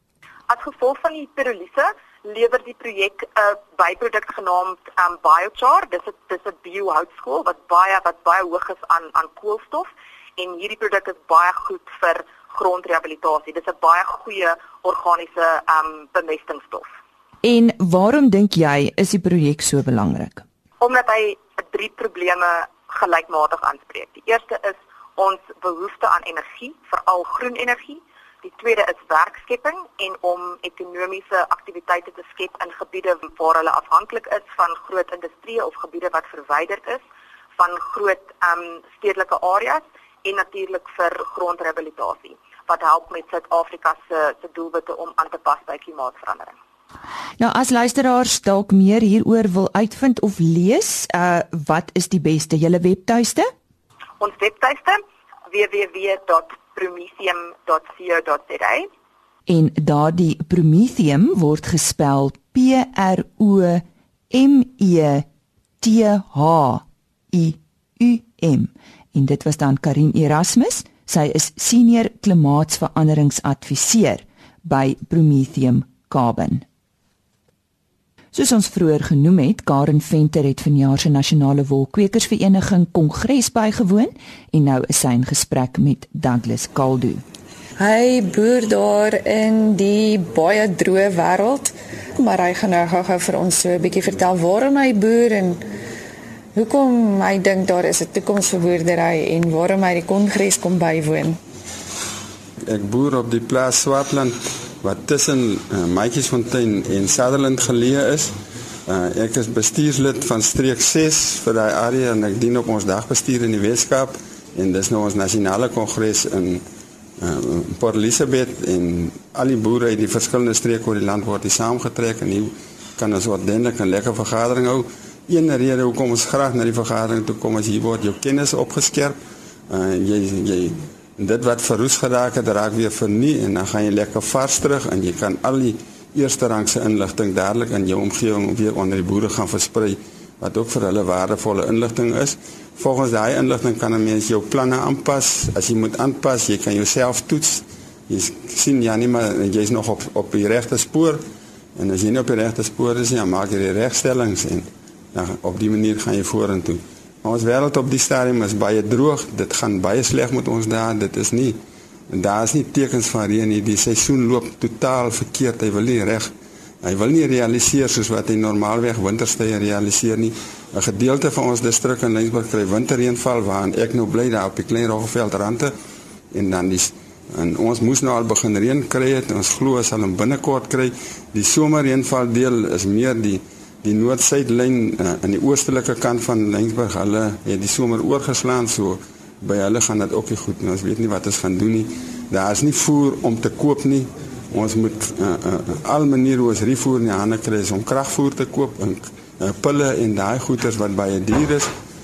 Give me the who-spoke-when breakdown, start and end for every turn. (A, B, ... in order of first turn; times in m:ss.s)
0:00.5-0:16.9 A
0:17.4-0:20.4 B
0:20.8-0:37.0 A
0:37.6-0:46.6 A
0:47.4-0:53.5 B
0:54.2-0:58.9 A
0:59.5-1:05.2 B
1:05.8-1:16.6 B
1:18.3-1:27.2 B
1:27.8-1:35.6 C
1:36.6-1:41.4 C
1:42.7-1:48.3 D
1:48.9-1:56.6 D
1:57.2-2:09.2 D
2:09.7-2:31.2 D
2:31.8-2:41.6 D
2:42.1-2:55.7 D
2:56.3-3:21.7 D